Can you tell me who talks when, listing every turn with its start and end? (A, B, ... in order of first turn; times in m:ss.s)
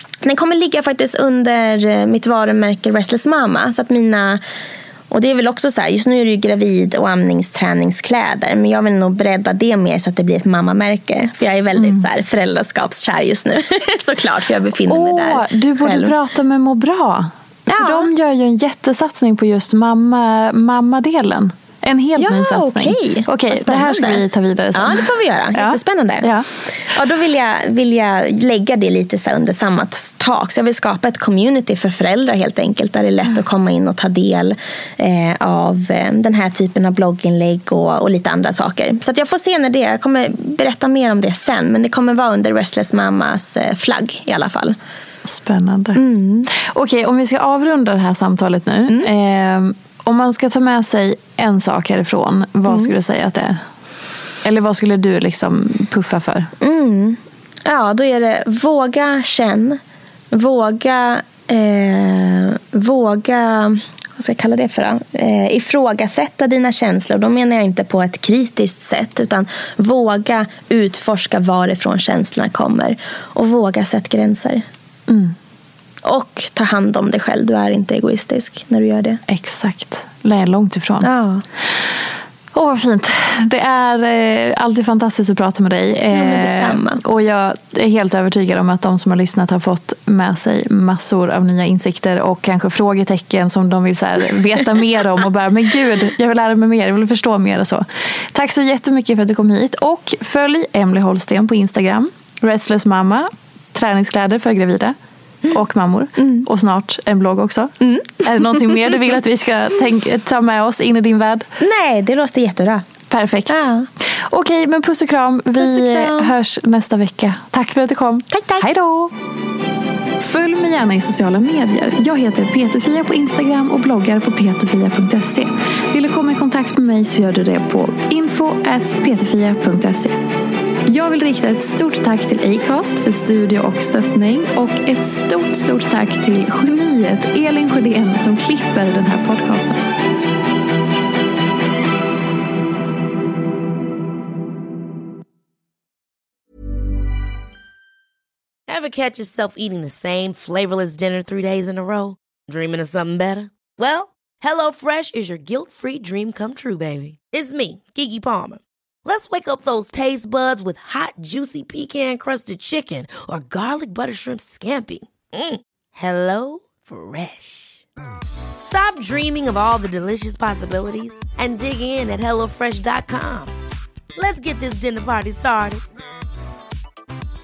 0:00.2-0:04.4 A
0:05.1-0:16.2 A
0:11.8-0:12.1 B
0:14.9-0:26.5 B
0:17.7-0:18.1 A
0:22.2-0:44.8 A
0:45.2-0:53.6 B
0:46.0-0:46.5 A
0:52.7-0:52.9 A
0:54.4-0:56.5 B
0:56.6-0:59.8 A
1:00.3-1:14.6 A
1:15.1-1:15.4 B
1:16.0-1:19.2 A
1:19.3-1:21.1 B
1:21.0-1:21.4 A
1:22.5-1:45.0 B
1:26.1-1:27.0 A
1:45.5-1:51.5 B
1:46.2-1:46.4 A
1:47.8-1:48.1 A
1:51.6-1:52.9 A
1:53.1-1:59.1 B
1:53.5-1:53.9 A
1:55.6-1:56.3 A
1:58.3-1:58.7 A
2:00.2-2:10.2 B
2:10.9-2:19.8 B
2:28.7-2:47.8 C
2:48.6-2:53.6 C
2:54.2-2:55.8 C